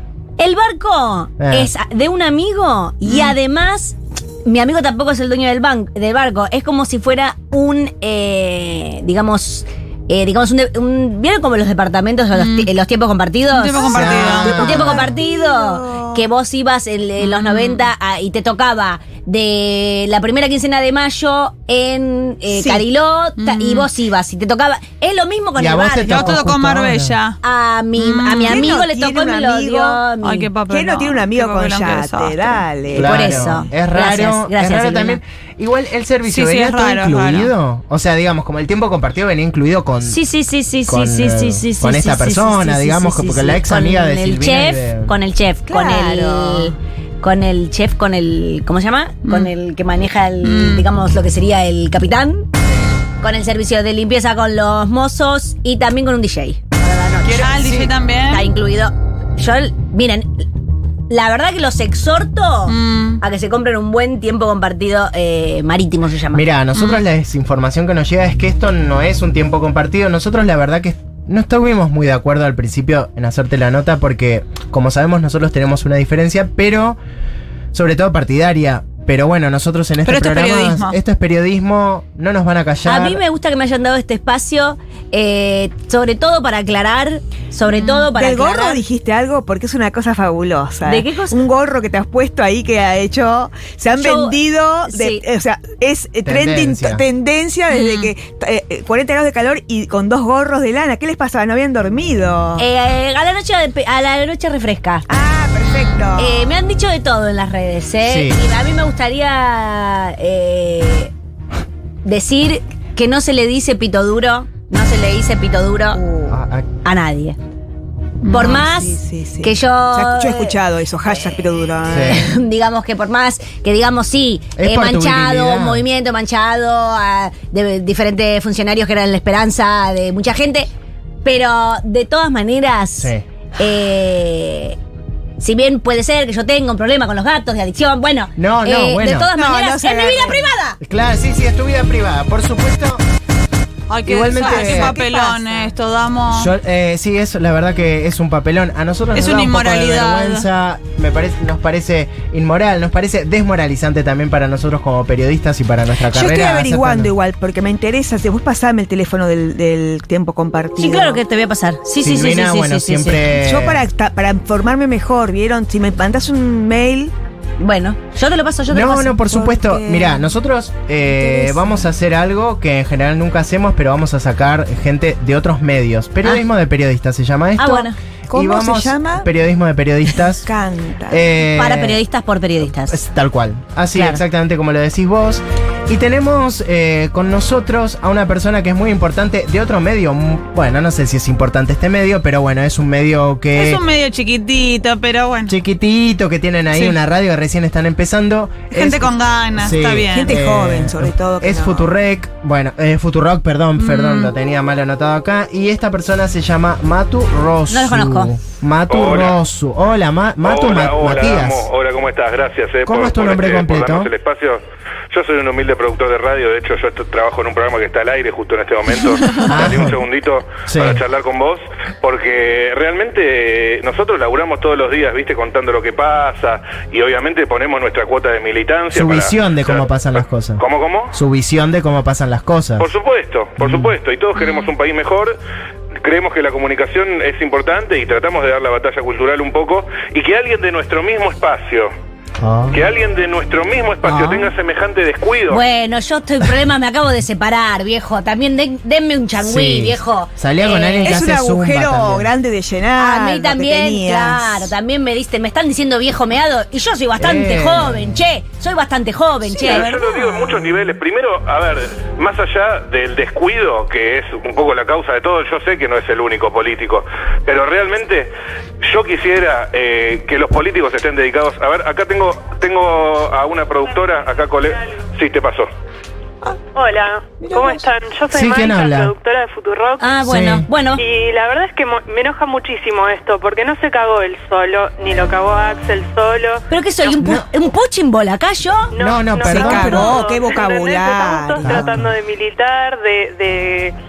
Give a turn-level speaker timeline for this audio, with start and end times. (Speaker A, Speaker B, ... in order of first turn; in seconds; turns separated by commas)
Speaker A: 0.4-26.4, Speaker B: 1.4-1.7, Speaker C: 3.1-3.3, Speaker C: 12.3-12.7, Speaker C: 13.5-14.9, Speaker B: 13.9-15.1, Speaker D: 14.6-16.2, Speaker C: 17.2-17.8, Speaker D: 22.5-22.9, Speaker C: 23.4-23.9, Speaker B: 25.6-27.2, Speaker C: 26.1-27.4, Speaker A: 27.4-30.5, Speaker C: 28.0-28.6, Speaker D: 28.4-30.0, Speaker C: 30.2-32.6, Speaker D: 30.7-33.5, Speaker B: 32.9-40.2, Speaker A: 33.0-35.2, Speaker C: 36.3-37.5, Speaker A: 40.0-52.5, Speaker B: 40.9-45.1, Speaker D: 45.7-46.7, Speaker C: 49.2-49.5, Speaker C: 50.4-50.8, Speaker A: 53.2-57.6, Speaker B: 57.2-57.9, Speaker C: 57.4-58.5, Speaker A: 58.3-60.5, Speaker A: 61.1-66.5, Speaker C: 62.7-63.2, Speaker B: 66.3-77.0, Speaker C: 66.8-67.0, Speaker B: 77.7-83.2, Speaker C: 80.0-81.0, Speaker A: 82.8-88.8, Speaker C: 87.7-88.0, Speaker D: 88.1-102.6, Speaker A: 90.9-91.4, Speaker A: 94.0-95.2, Speaker B: 96.2-97.0, Speaker C: 97.7-98.1, Speaker A: 102.6-105.1, Speaker D: 105.1-106.5, Speaker A: 106.2-111.1, Speaker B: 108.0-108.4, Speaker A: 112.0-116.0, Speaker D: 115.9-116.4, Speaker B: 116.3-116.7, Speaker A: 116.8-117.4, Speaker C: 118.2-118.6, Speaker A: 118.3-120.6, Speaker D: 118.3-122.3, Speaker B: 121.9-122.3, Speaker A: 121.9-130.7, Speaker B: 124.6-125.8, Speaker A: 131.2-134.8, Speaker B: 133.0-133.2, Speaker A: 135.4-140.8, Speaker B: 138.4-139.3, Speaker D: 139.3-140.4, Speaker B: 140.8-143.0, Speaker C: 143.9-146.5, Speaker B: 144.1-145.0, Speaker A: 144.3-145.7, Speaker D: 144.6-144.9, Speaker B: 146.3-157.1, Speaker C: 149.1-150.5, Speaker D: 156.1-161.2, Speaker A: 160.8-163.3, Speaker B: 162.0-163.8, Speaker D: 163.4-167.1, Speaker A: 167.6-169.2, Speaker B: 168.7-180.5, Speaker D: 169.3-170.3, Speaker D: 171.1-171.8, Speaker A: 177.6-178.0, Speaker D: 177.7-179.3, Speaker D: 180.4-181.3, Speaker B: 181.1-182.0, Speaker A: 181.6-183.0, Speaker B: 182.6-193.8, Speaker A: 183.9-184.2, Speaker C: 193.6-195.6, Speaker B: 195.5-211.7, Speaker C: 196.7-197.0, Speaker C: 198.7-200.3, Speaker D: 200.1-201.9, Speaker C: 203.8-204.3, Speaker A: 207.7-208.4, Speaker E: 208.9-209.4, Speaker E: 210.4-214.6, Speaker B: 212.8-214.1, Speaker E: 215.1-230.0, Speaker B: 219.5-220.0, Speaker B: 220.7-221.0, Speaker B: 228.9-232.9, Speaker E: 230.6-231.1, Speaker E: 232.8-235.3, Speaker B: 233.6-233.9, Speaker E: 236.0-241.9, Speaker B: 242.4-242.9, Speaker E: 242.7-245.6, Speaker B: 244.0-244.5, Speaker A: 245.5-251.2, Speaker B: 249.4-252.3, Speaker D: 251.0-254.7, Speaker A: 253.0-259.9, Speaker B: 257.2-258.2, Speaker E: 259.6-268.3, Speaker D: 259.6-260.6, Speaker E: 268.8-275.7, Speaker F: 276.8-280.1, Speaker D: 277.4-277.8, Speaker B: 278.3-279.1, Speaker A: 280.0-281.0, Speaker B: 280.2-280.7, Speaker F: 281.0-286.6, Speaker A: 286.7-288.9, Speaker B: 287.2-287.5, Speaker F: 288.9-293.9, Speaker B: 289.0-290.2, Speaker D: 289.5-292.0, Speaker B: 291.6-292.1